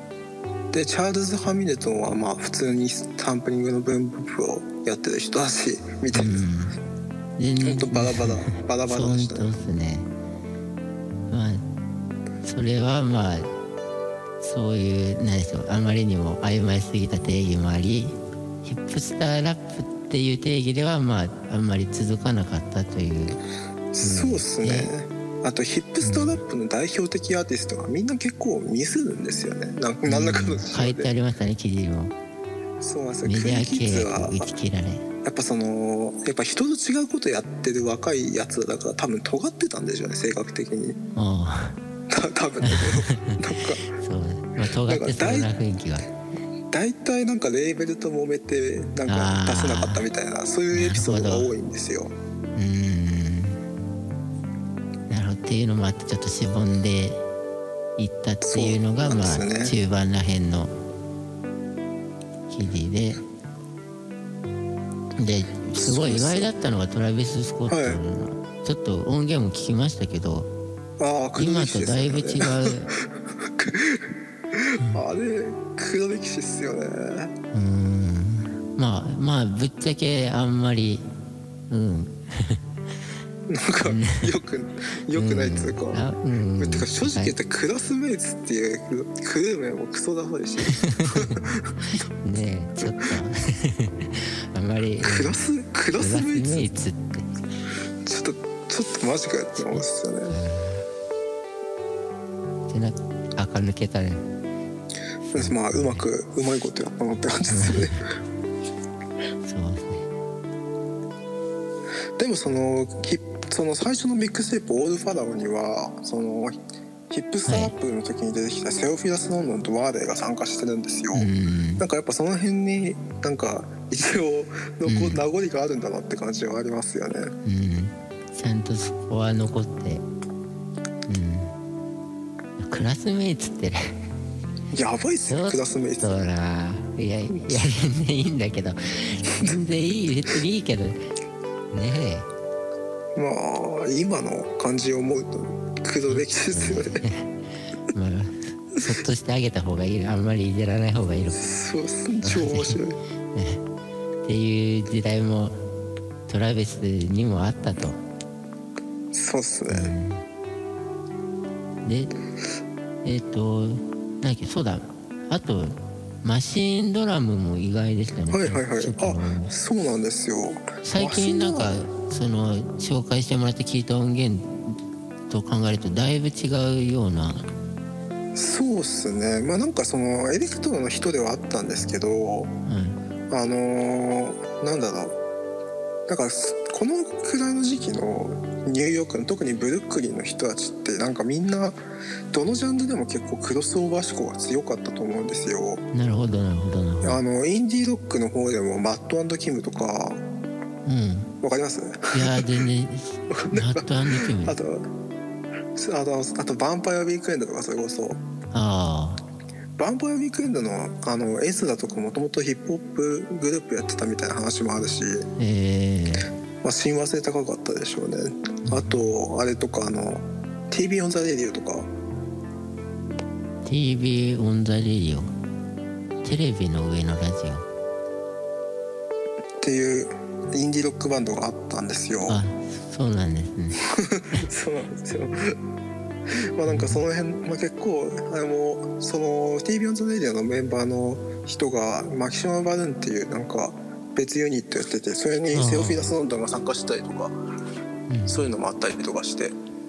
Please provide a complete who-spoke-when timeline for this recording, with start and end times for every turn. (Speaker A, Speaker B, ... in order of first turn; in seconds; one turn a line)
Speaker A: 0.7-6.4
Speaker B: 6.1-6.7
Speaker B: 7.4-10.1
Speaker A: 7.6-9.5
Speaker B: 11.3-11.6
Speaker B: 12.4-13.5
Speaker B: 14.4-23.4
Speaker A: 23.9-31.1
Speaker B: 24.0-24.9
Speaker B: 26.0-26.4
Speaker B: 30.1-32.1
Speaker A: 32.8-34.4
Speaker B: 33.2-35.0
Speaker A: 35.2-41.0
Speaker B: 41.1-41.8
Speaker A: 42.1-43.8
Speaker B: 42.6-46.1
Speaker A: 44.9-45.5
Speaker A: 46.7-52.1
Speaker B: 49.1-50.0
Speaker B: 50.7-51.5
Speaker B: 52.5-53.6
Speaker B: 55.1-57.2
Speaker B: 58.0-60.7
Speaker A: 58.4-59.7
Speaker B: 62.5-63.2
Speaker B: 65.2-70.5
Speaker A: 65.8-66.5
Speaker A: 67.7-68.0
Speaker A: 71.0-77.3
Speaker B: 71.4-72.9
Speaker B: 77.5-81.0
Speaker B: 81.7-82.6
Speaker A: 83.5-86.0
Speaker B: 83.8-84.3
Speaker B: 85.1-87.3
Speaker A: 86.6-91.7
Speaker B: 90.6-95.4
Speaker A: 92.8-93.1
Speaker A: 95.0-96.7
Speaker B: 95.9-97.3
Speaker A: 98.0-100.4
Speaker B: 99.6-100.8
Speaker B: 102.7-104.2
Speaker B: 105.3-106.0
Speaker A: 105.3-107.9
Speaker B: 107.5-108.0
Speaker B: 109.4-110.0
Speaker A: 112.2-116.6
Speaker A: 117.1-127.3
Speaker B: 117.5-117.7
Speaker B: 121.1-121.8
Speaker B: 124.8-125.2
Speaker B: 127.4-130.0
Speaker B: 131.1-131.5
Speaker B: 132.6-133.9
Speaker A: 134.7-136.2
Speaker B: 135.3-141.0
Speaker B: 141.7-142.3
Speaker A: 143.2-147.0
Speaker B: 146.1-147.4
Speaker B: 147.9-151.5
Speaker A: 151.3-153.0
Speaker B: 152.2-152.8
Speaker B: 153.3-153.6
Speaker B: 154.2-155.6
Speaker B: 156.3-158.0
Speaker A: 159.1-159.9
Speaker B: 159.7-160.2
Speaker B: 161.8-162.1
Speaker B: 163.0-169.5
Speaker A: 168.3-171.8
Speaker B: 170.8-174.8
Speaker B: 175.3-177.5
Speaker A: 178.3-182.5
Speaker B: 182.7-183.0
Speaker A: 183.3-185.2
Speaker A: 186.1-191.8
Speaker A: 192.3-195.8
Speaker B: 195.9-197.2
Speaker A: 197.0-200.2
Speaker B: 200.8-201.3
Speaker A: 201.4-202.4
Speaker B: 202.1-204.6
Speaker A: 203.3-204.9
Speaker A: 205.7-208.2
Speaker B: 208.5-209.2
Speaker A: 209.8-215.2
Speaker B: 215.4-216.3
Speaker A: 216.6-221.9
Speaker B: 218.7-218.9
Speaker B: 223.6-225.3
Speaker B: 226.2-227.6
Speaker A: 229.6-232.4
Speaker B: 232.3-233.8
Speaker A: 233.9-235.6
Speaker A: 236.3-247.4
Speaker B: 236.7-237.0
Speaker B: 245.5-246.1
Speaker B: 248.1-248.5
Speaker A: 248.3-249.6